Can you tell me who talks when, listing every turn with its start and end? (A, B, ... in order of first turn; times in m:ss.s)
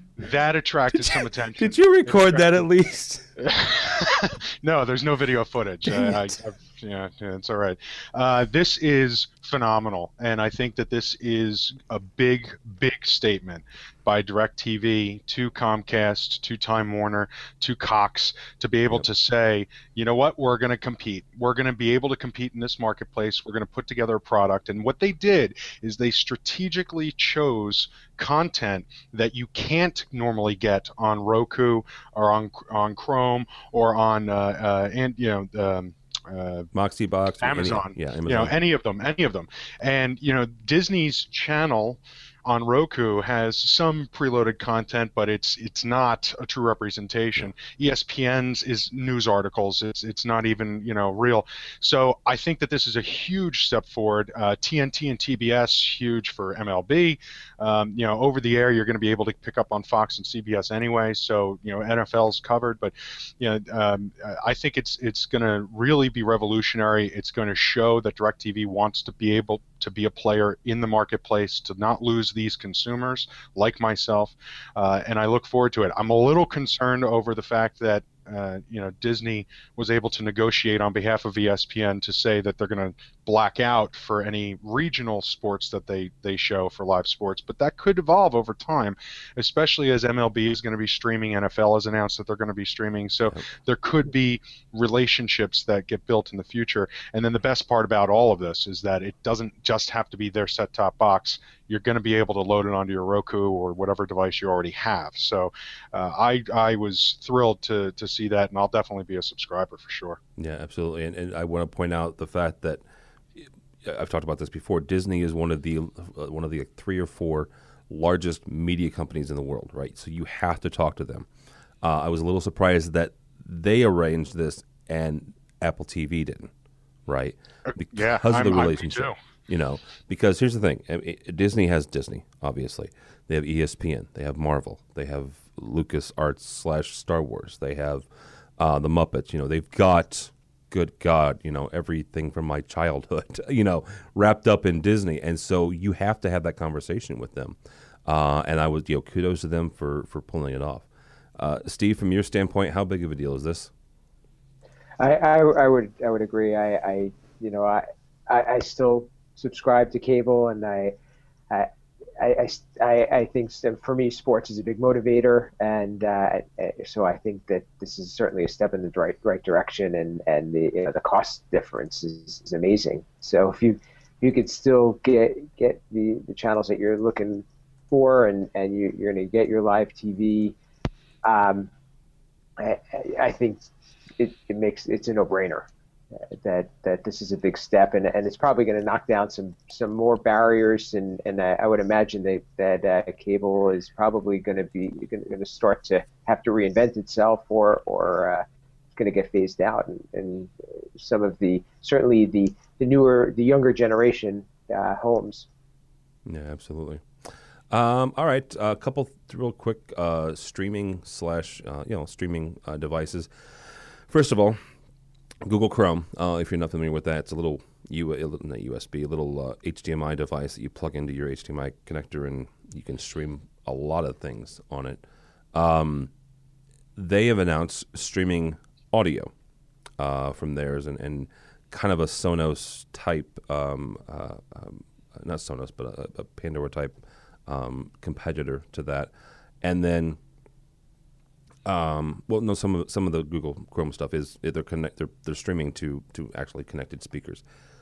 0:00.2-0:02.4 A
0:00.9-0:03.3 B
0:03.4-0:36.7 A
0:05.9-0:06.2 B
0:36.7-0:38.6 B
0:37.4-1:50.2 A
1:50.4-1:52.8 B
1:53.4-2:01.3 B
2:01.8-2:06.5 B
2:07.1-2:18.1 B
2:07.7-2:09.2 A
2:18.6-2:33.7 B
2:35.0-2:40.9 C
2:41.5-3:00.6 C
3:01.2-3:01.7 C
3:02.6-3:03.6 C
3:04.2-3:05.7 C
3:06.4-3:25.5 C
3:26.3-3:27.1 B
3:27.7-3:34.6 B
3:35.4-3:45.0 B
3:45.5-3:46.1 B
3:47.0-3:49.3 B
3:50.0-3:59.1 B
3:59.6-4:00.2 B
4:01.6-4:07.4 B